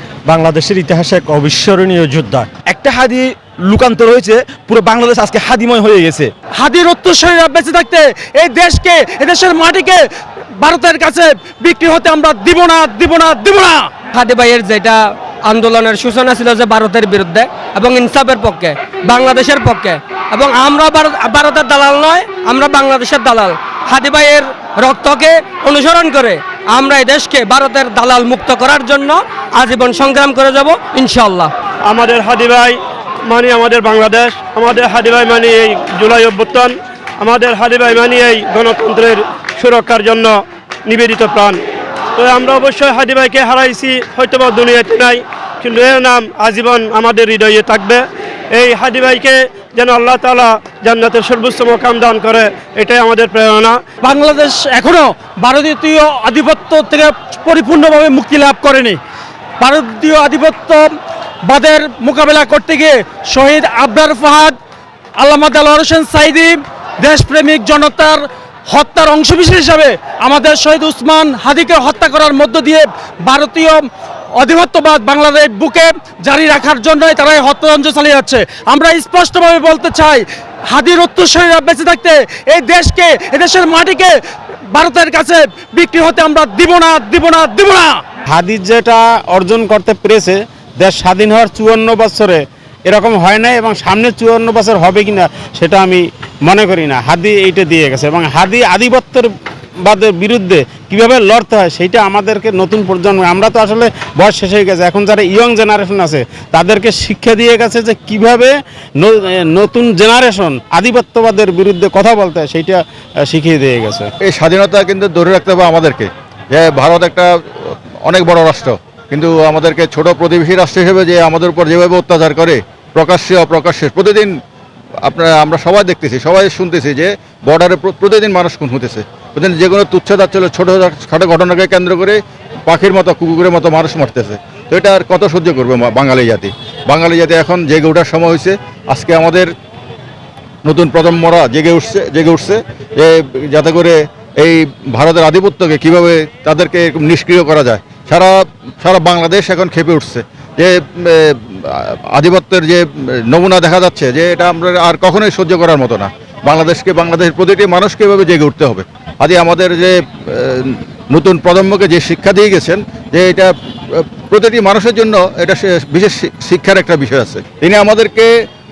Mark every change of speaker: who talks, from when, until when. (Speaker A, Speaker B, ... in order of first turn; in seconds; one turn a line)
Speaker A: 0.3-2.5
Speaker B: 2.7-6.3
Speaker C: 6.6-10.0
Speaker C: 10.6-13.9
Speaker D: 14.1-31.5
Speaker E: 31.9-41.6
Speaker E: 42.1-53.8
Speaker C: 54.0-59.0
Speaker C: 59.6-64.6
Speaker C: 65.2-88.0
Speaker F: 88.3-99.3
Speaker F: 99.8-114.1
Speaker G: 114.2-124.3
Speaker G: 125.0-139.5
Speaker G: 140.6-168.3